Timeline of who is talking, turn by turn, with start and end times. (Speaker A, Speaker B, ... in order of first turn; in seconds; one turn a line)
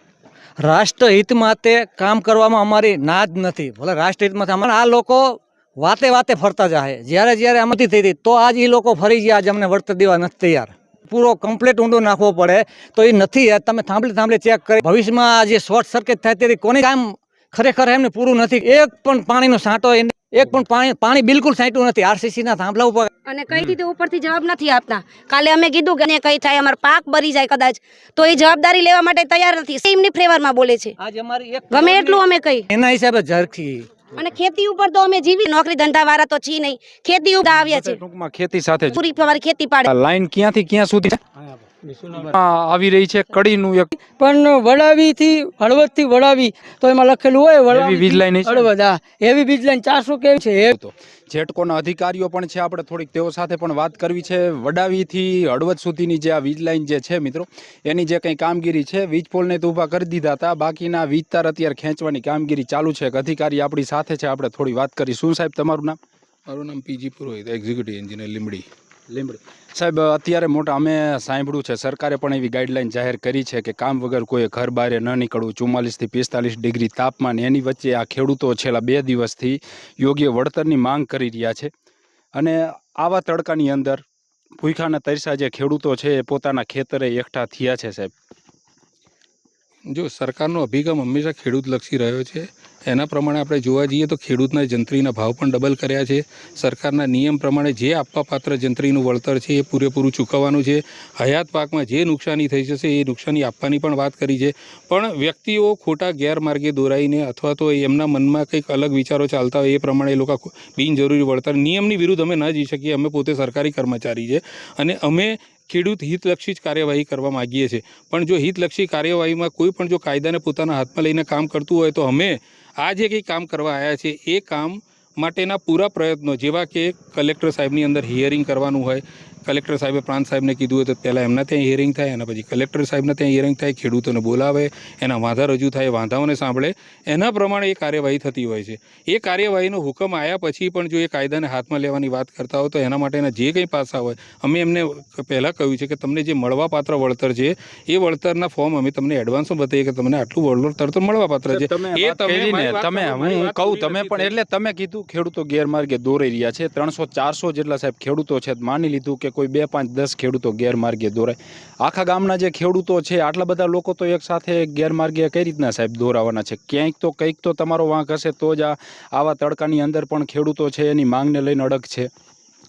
Speaker A: 0.6-23.1
Speaker B: 23.3-30.9
Speaker A: 31.0-34.0
Speaker B: 31.7-32.7
Speaker B: 34.2-38.0
Speaker C: 37.5-39.0
Speaker B: 38.9-39.9
Speaker C: 39.9-41.2
Speaker C: 42.1-43.9
Speaker D: 44.0-50.7
Speaker C: 47.7-48.7
Speaker C: 50.7-66.0
Speaker E: 66.5-68.7
Speaker C: 69.1-81.7
Speaker C: 82.4-84.0
Speaker C: 84.6-88.1
Speaker E: 89.9-154.4
Speaker C: 151.5-172.1